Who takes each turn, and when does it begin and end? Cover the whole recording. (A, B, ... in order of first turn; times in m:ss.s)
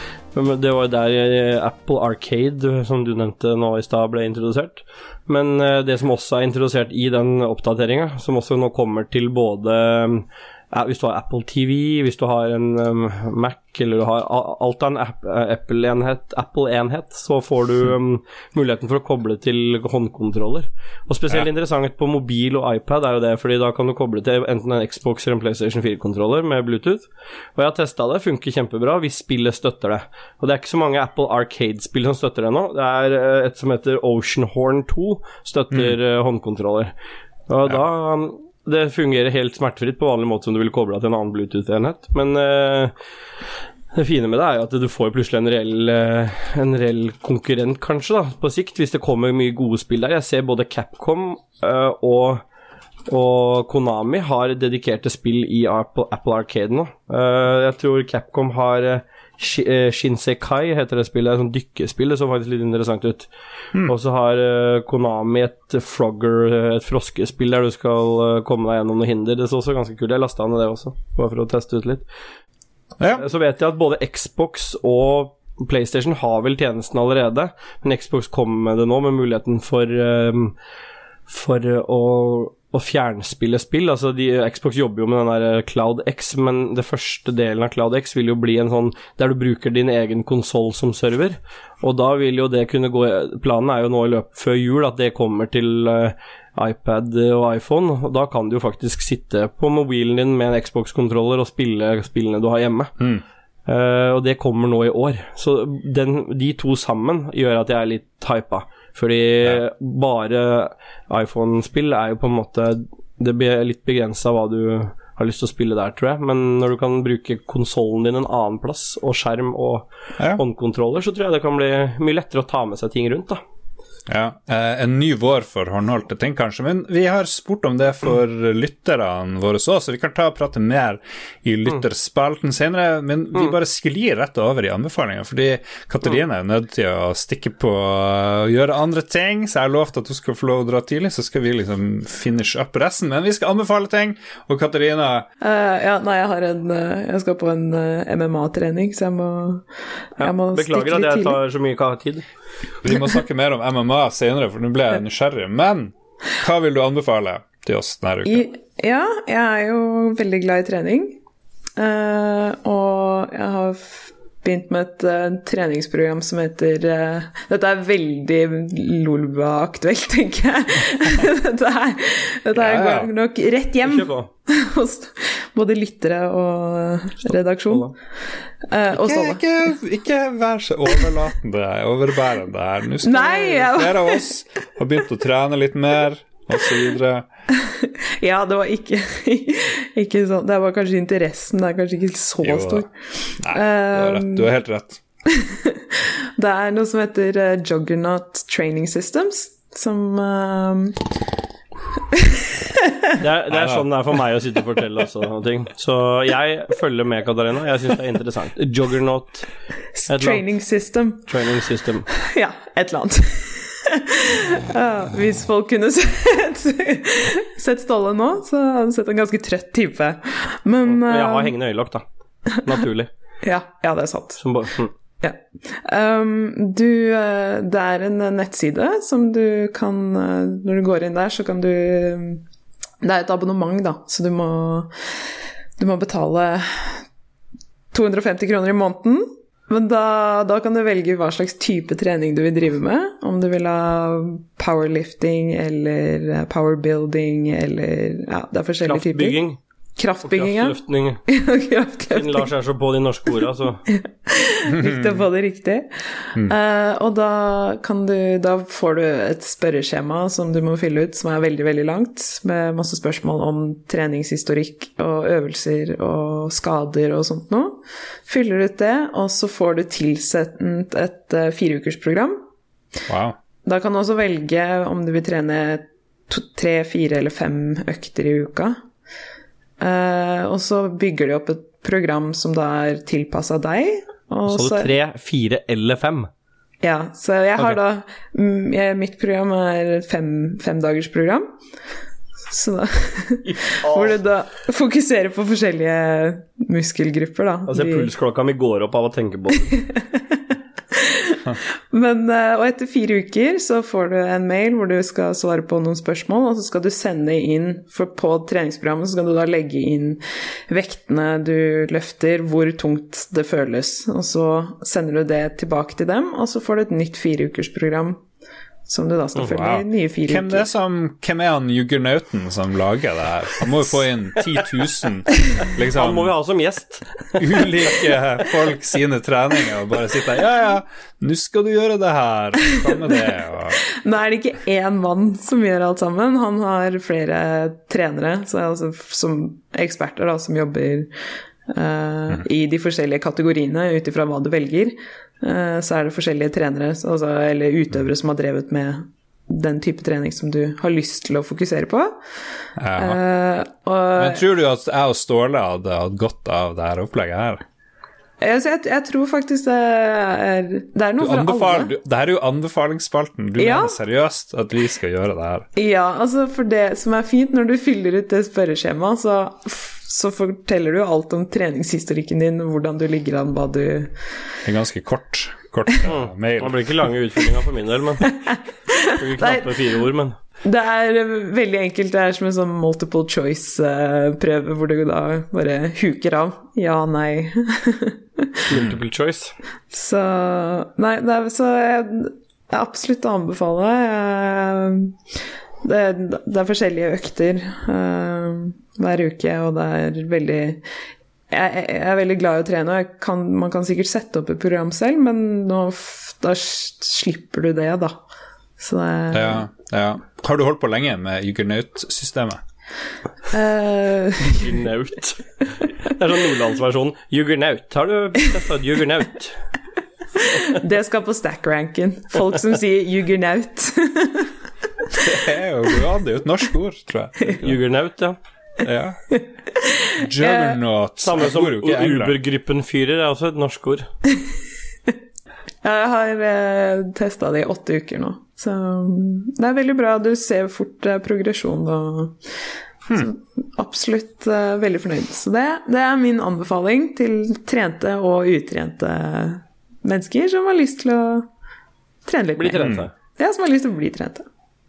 0:00.3-0:36.9 A
0:37.5-0:42.9 A
0:43.9-0:52.4 A
0:53.1-1:03.3 A
1:03.8-1:12.0 A
1:13.2-1:20.5 A
1:21.3-1:42.9 A
1:43.0-1:43.2 B
1:43.7-2:03.4 A
2:04.1-2:25.3 B
2:25.4-2:29.6 C
2:30.2-2:31.4 C
2:30.2-2:32.3 A
2:32.8-2:38.5 B
2:38.2-2:41.2 C
2:41.8-2:57.9 C
2:52.5-2:53.1 B
2:53.8-2:54.3 A
2:58.7-2:59.4 C
2:58.9-3:07.2 B
3:03.0-3:04.2 C
3:07.6-3:14.5 C
3:12.4-3:15.0 B
3:15.3-3:21.0 C
3:22.1-3:23.0 C
3:23.2-3:29.5 A
3:23.5-3:23.9 B
3:29.9-3:31.3 C
3:30.1-3:30.4 A
3:31.3-3:32.1 A
3:32.2-3:41.5 C
3:40.9-3:42.0 A
3:42.6-3:43.1 A
3:43.4-3:44.4 C
3:44.4-3:44.9 A
3:45.2-3:52.4 C
3:53.0-3:54.9 C
3:55.8-3:57.0 C
3:57.9-4:09.4 C
4:08.8-4:09.6 A
4:10.0-4:12.5 C
4:10.2-4:11.2 A
4:12.1-4:13.8 A
4:13.9-4:32.4 C
4:14.7-4:15.2 B
4:33.1-4:33.4 B
4:33.6-4:38.8 C
4:39.8-4:44.9 C
4:44.5-4:46.3 A
4:46.8-4:51.5 C
4:52.5-4:58.1 C
4:53.4-4:54.2 A
4:57.7-4:59.7 A
4:59.7-5:00.4 C
5:00.9-5:01.4 C
5:01.9-5:18.2 C
5:18.9-5:20.7 C
5:19.4-5:26.3 B
5:25.9-5:27.7 A
5:27.4-5:33.8 B
5:34.0-5:41.1 C
5:41.7-5:52.1 C
5:52.8-5:53.2 B
5:53.0-5:54.4 C
5:54.2-5:57.6 B
5:58.4-6:01.9 C
6:01.2-6:05.7 B
6:03.6-6:04.0 C
6:05.8-6:14.1 C
6:14.6-6:17.1 B
6:16.1-6:18.4 A
6:18.4-6:19.7 C
6:19.2-6:20.4 A
6:20.6-6:28.6 C
6:28.7-6:29.5 A
6:28.7-6:29.0 B
6:29.9-6:35.1 C
6:35.8-6:40.8 C
6:41.5-6:48.2 C
6:48.8-6:49.6 C
6:49.3-6:52.6 B
6:53.5-6:54.7 C
6:54.5-6:59.6 A
7:00.4-7:04.5 C
7:05.2-7:07.8 B
7:07.6-7:08.4 A
7:08.8-7:09.4 B
7:10.2-7:12.4 B
7:10.4-7:10.8 C
7:11.2-7:14.1 A
7:15.8-7:22.4 C
7:23.1-7:31.5 C
7:32.2-7:34.4 C
7:32.6-7:33.1 A
7:32.8-7:33.1 B